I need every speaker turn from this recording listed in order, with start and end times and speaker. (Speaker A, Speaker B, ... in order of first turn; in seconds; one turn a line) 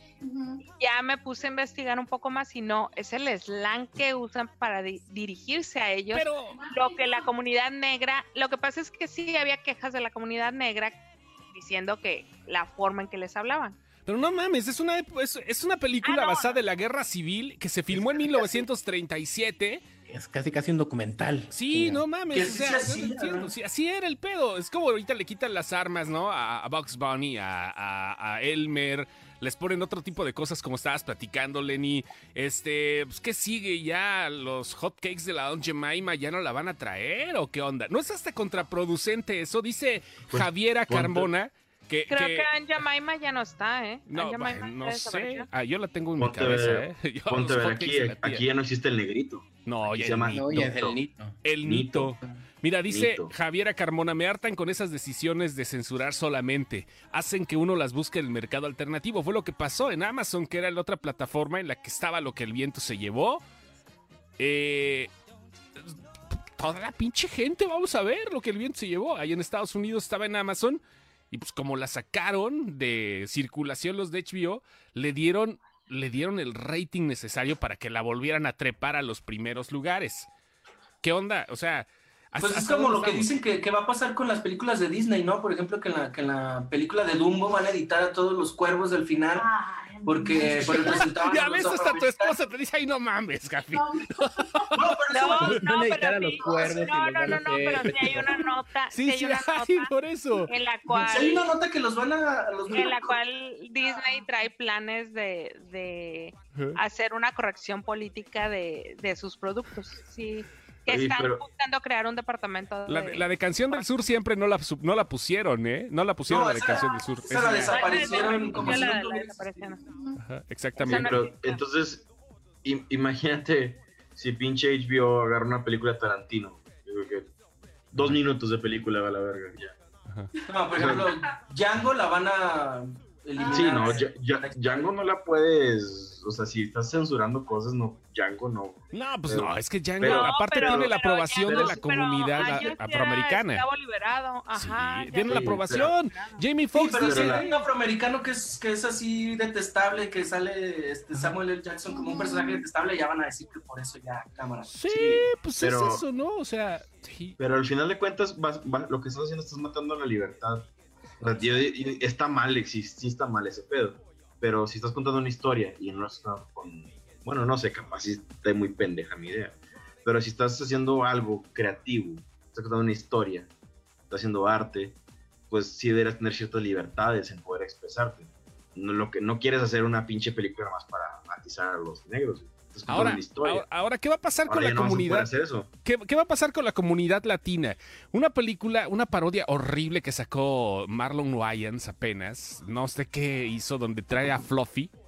Speaker A: 0.2-0.6
Speaker B: 0.8-13.8
Speaker C: 6.1-6.6
Speaker A: 6.5-7.3
Speaker C: 14.1-19.8
Speaker B: 16.0-16.6
Speaker D: 18.0-18.4
Speaker D: 20.1-22.0
Speaker C: 21.5-42.5
Speaker E: 22.3-23.5
Speaker F: 40.3-41.3
Speaker B: 42.1-45.5
Speaker C: 44.1-48.4
Speaker F: 46.2-51.0
Speaker C: 49.6-50.9
Speaker D: 50.3-51.4
Speaker C: 51.4-63.4
Speaker F: 51.6-52.2
Speaker F: 52.9-53.3
Speaker C: 64.4-65.1
Speaker C: 66.6-80.3
Speaker C: 81.0-83.3
Speaker E: 82.4-89.5
Speaker A: 89.3-91.1
Speaker E: 90.0-92.4
Speaker C: 90.4-94.8
Speaker A: 93.7-94.8
Speaker E: 94.7-95.6
Speaker B: 95.1-99.9
Speaker D: 95.5-98.4
Speaker E: 96.4-96.9
Speaker A: 98.2-98.5
Speaker C: 98.9-100.5
Speaker B: 100.5-101.5
Speaker E: 100.9-103.2
Speaker B: 102.7-113.8
Speaker F: 110.9-111.4
Speaker C: 112.9-117.9
Speaker E: 116.3-119.8
Speaker A: 117.7-119.0
Speaker B: 117.7-119.8
Speaker A: 119.8-120.2
Speaker C: 120.2-121.2
Speaker B: 120.8-121.6
Speaker F: 120.8-122.0
Speaker F: 122.6-127.3
Speaker F: 127.9-129.7
Speaker E: 130.5-134.9
Speaker F: 130.7-131.1
Speaker A: 133.4-133.9
Speaker F: 133.5-141.8
Speaker C: 138.9-143.6
Speaker B: 140.0-146.5
Speaker E: 142.3-142.7
Speaker C: 144.5-147.6
Speaker F: 145.2-145.9
Speaker E: 146.7-154.8
Speaker F: 147.0-147.5
Speaker A: 151.9-152.6
Speaker C: 154.7-157.4
Speaker F: 154.9-156.0
Speaker F: 157.4-160.7
Speaker F: 161.2-173.5
Speaker F: 174.1-174.9
Speaker F: 175.5-183.6
Speaker C: 182.9-185.3
Speaker F: 184.5-185.7
Speaker C: 185.8-194.9